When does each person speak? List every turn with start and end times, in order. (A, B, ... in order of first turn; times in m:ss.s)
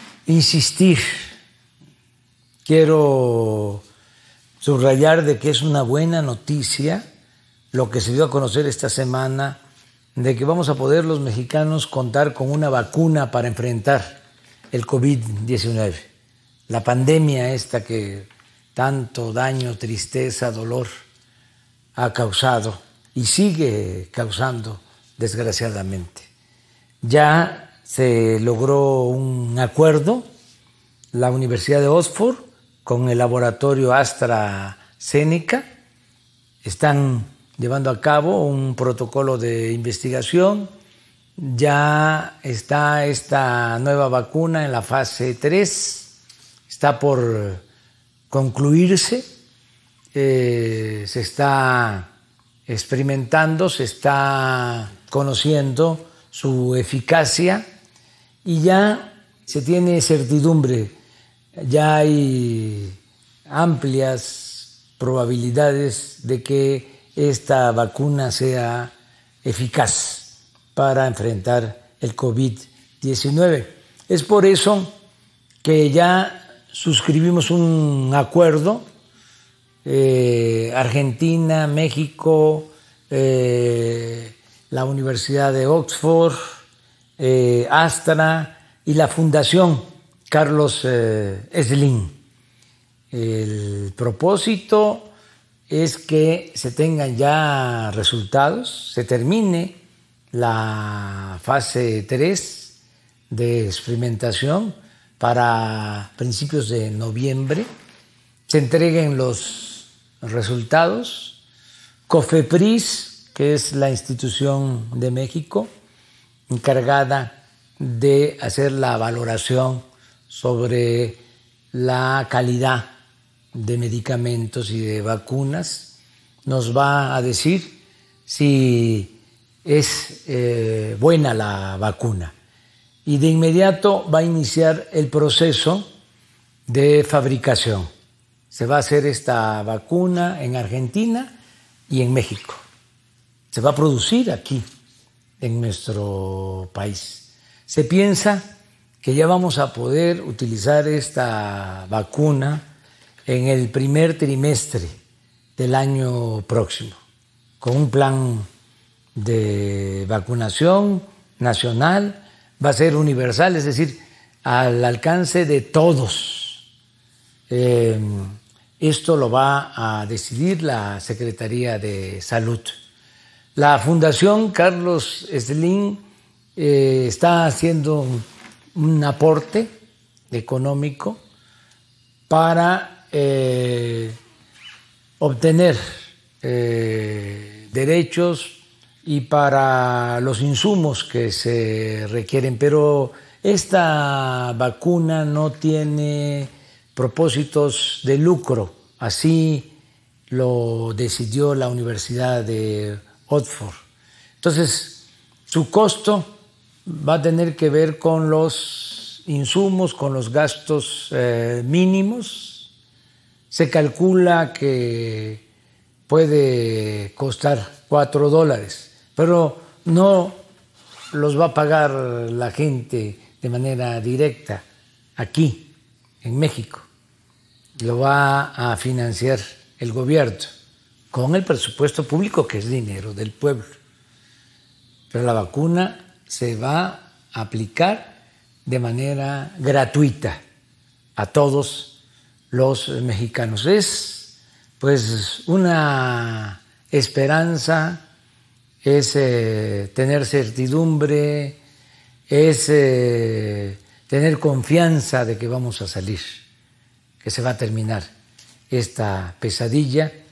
0:00.2-0:01.1 A
0:02.6-0:03.8 A
0:04.6-0:07.0 A
0:07.7-0:09.6 A
0:10.2-0:14.2 A
0:14.7-0:16.1 A
0:16.7-0:20.9 A
0:22.0-0:26.3 A
0:27.0-0:30.2 A
0:31.1-0:35.6 A
0:36.6-0:40.7 A
0:41.4-0:46.1 A
0:46.7-0:47.6 A
0:48.3-0:49.2 A
0:50.1-0:52.1 A
0:52.7-0:57.6 A
0:58.4-1:00.9 A
1:01.6-1:02.9 A
1:03.5-1:08.9 A
1:09.4-1:14.9 A
1:15.6-1:18.8 A
1:19.8-1:26.4 A
1:27.2-1:32.1 A
1:33.1-1:35.1 A
1:35.7-1:39.7 A
1:40.3-1:42.7 A
1:43.3-1:47.6 A
1:48.5-1:51.4 A
1:52.1-1:55.7 A
1:56.5-2:01.2 A
2:01.7-2:02.9 A
2:03.5-2:05.9 A
2:06.4-2:07.7 A
2:08.3-2:09.1 A
2:09.6-2:12.3 A
2:13.0-2:15.8 A
2:16.7-2:17.9 A
2:18.5-2:21.3 A
2:21.9-2:22.6 A
2:23.5-2:24.6 A
2:25.4-2:28.4 A
2:29.0-2:32.6 A
2:33.3-2:34.9 A
2:35.6-2:37.0 A
2:37.6-2:38.5 A
2:39.2-2:46.6 A
2:47.5-2:52.7 A
2:53.6-2:56.0 A
2:56.6-2:58.2 A
2:58.7-2:59.7 A
3:00.3-3:01.2 A
3:02.3-3:04.2 A
3:05.2-3:05.8 A
3:06.4-3:19.7 A
3:20.3-3:23.8 A
3:24.4-3:26.3 A
3:26.8-3:32.7 A
3:33.5-3:35.4 A
3:36.1-3:40.4 A
3:41.1-3:44.6 A
3:45.2-3:45.7 A
3:46.2-3:46.9 A
3:47.8-3:50.5 A
3:51.1-3:53.7 A
3:55.1-3:58.1 A
3:58.6-4:00.4 A
4:01.2-4:01.9 A
4:02.5-4:08.0 A
4:08.8-4:11.6 A
4:12.3-4:16.4 A
4:17.2-4:18.1 A
4:18.7-4:20.1 A